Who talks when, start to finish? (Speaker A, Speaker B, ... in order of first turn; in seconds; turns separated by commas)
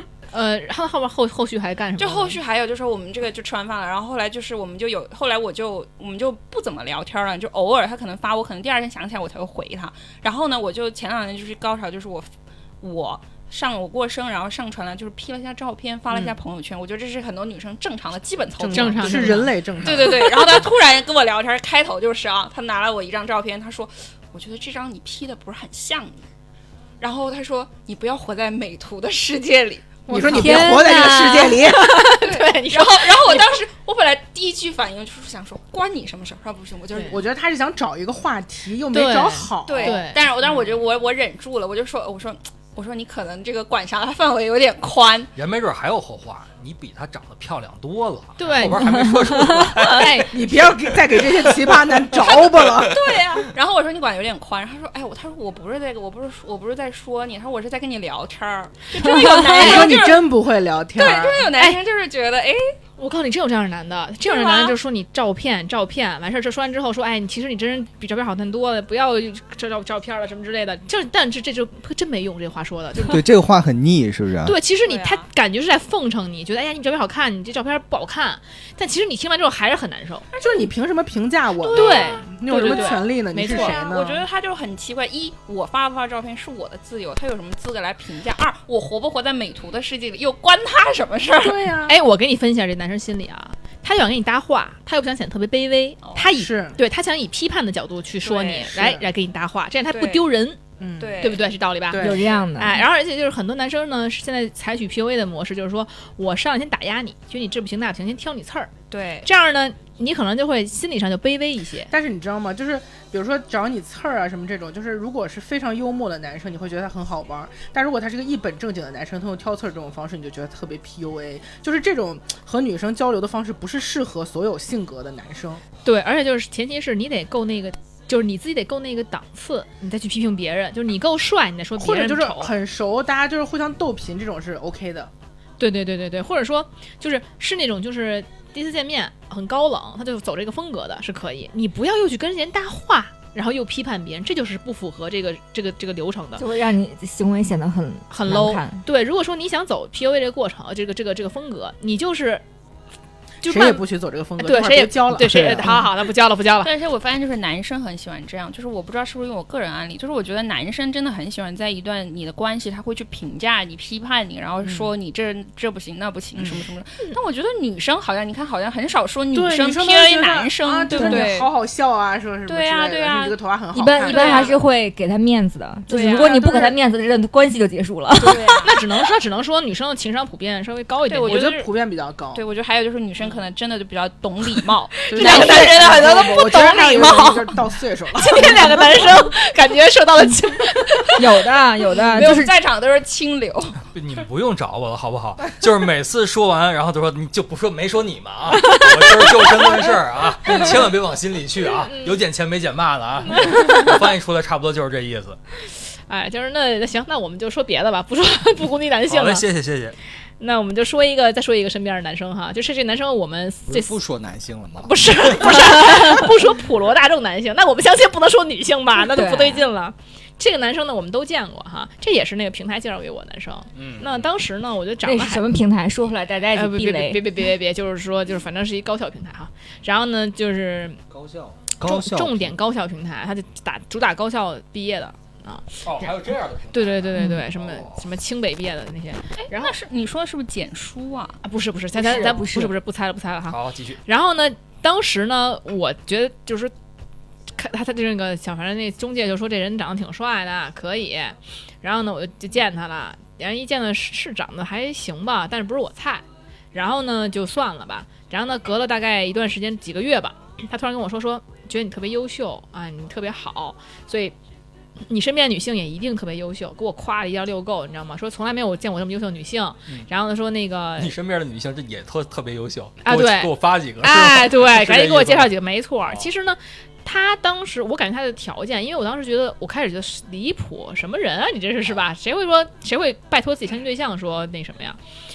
Speaker A: 0.3-2.4, Speaker B: 2.0-12.3, Speaker B: 12.8-26.2, Speaker C: 16.1-16.4, Speaker C: 18.6-20.6, Speaker A: 18.7-19.6, Speaker B: 27.0-31.5, Speaker A: 30.1-33.6, Speaker C: 30.1-31.9, Speaker D: 30.1-31.5, Speaker B: 32.2-37.2, Speaker C: 37.1-40.6, Speaker A: 38.9-40.3, Speaker B: 39.6-45.3, Speaker E: 45.4-50.3, Speaker A: 48.4-50.4, Speaker C: 50.3-52.9, Speaker E: 51.3-51.8, Speaker B: 52.3-60.3, Speaker A: 59.0-60.0, Speaker C: 59.5-61.5, Speaker B: 60.9-62.8, Speaker A: 63.0-73.2, Speaker B: 64.2-64.8, Speaker F: 73.0-74.6, Speaker A: 74.4-80.3, Speaker B: 74.8-75.3, Speaker B: 80.3-80.7, Speaker C: 80.4-84.2, Speaker B: 81.6-91.7, Speaker A: 81.7-83.8, Speaker C: 91.4-92.0, Speaker A: 91.9-100.6, Speaker B: 96.0-96.3, Speaker C: 96.3-96.8, Speaker B: 98.2-98.7, Speaker C: 98.7-99.0, Speaker B: 99.9-100.3, Speaker C: 100.8-101.3, Speaker B: 101.0-101.5, Speaker A: 101.2-108.7, Speaker C: 101.9-102.4, Speaker D: 102.0-102.8, Speaker B: 108.9-109.3, Speaker A: 109.2-111.9, Speaker C: 111.9-125.6, Speaker A: 125.8-132.5, Speaker C: 131.8-135.1, Speaker A: 135.6-146.4, Speaker D: 146.4-148.8, Speaker A: 148.1-152.4, Speaker A: 153.4-153.8, Speaker C: 153.4-155.8, Speaker A: 154.4-156.7, Speaker F: 155.2-155.7, Speaker B: 156.6-171.5, Speaker C: 164.6-164.9, Speaker C: 166.3-166.7, Speaker C: 169.3-174.6, Speaker D: 171.0-171.2, Speaker B: 172.4-173.4, Speaker D: 173.7-178.5, Speaker B: 174.0-174.6, Speaker B: 175.9-176.7, Speaker C: 176.0-176.8, Speaker B: 178.2-178.7, Speaker A: 178.6-181.5, Speaker B: 181.1-181.7, Speaker C: 181.3-182.4, Speaker B: 182.3-187.4, Speaker A: 185.1-185.6, Speaker C: 185.1-188.8, Speaker D: 185.2-187.4, Speaker A: 188.2-191.2, Speaker D: 191.2-192.5, Speaker B: 191.9-193.8, Speaker E: 193.9-205.4, Speaker A: 198.6-198.9, Speaker A: 201.8-202.2, Speaker A: 203.3-204.0, Speaker A: 206.1-209.4, Speaker E: 209.1-209.9, Speaker A: 210.4-214.0, Speaker F: 213.7-215.1, Speaker A: 214.8-225.5, Speaker D: 219.0-219.7, Speaker E: 223.7-224.3, Speaker D: 225.0-227.3, Speaker A: 226.5-231.0, Speaker E: 231.1-231.7, Speaker F: 231.7-232.5, Speaker A: 231.8-235.9, Speaker E: 235.8-238.1, Speaker A: 236.7-239.8, Speaker B: 239.4-241.4, Speaker A: 241.4-246.7, Speaker D: 242.0-242.7, Speaker E: 243.5-244.0, Speaker A: 247.6-264.4, Speaker A: 265.1-271.1, Speaker E: 271.0-275.5, Speaker A: 273.0-285.0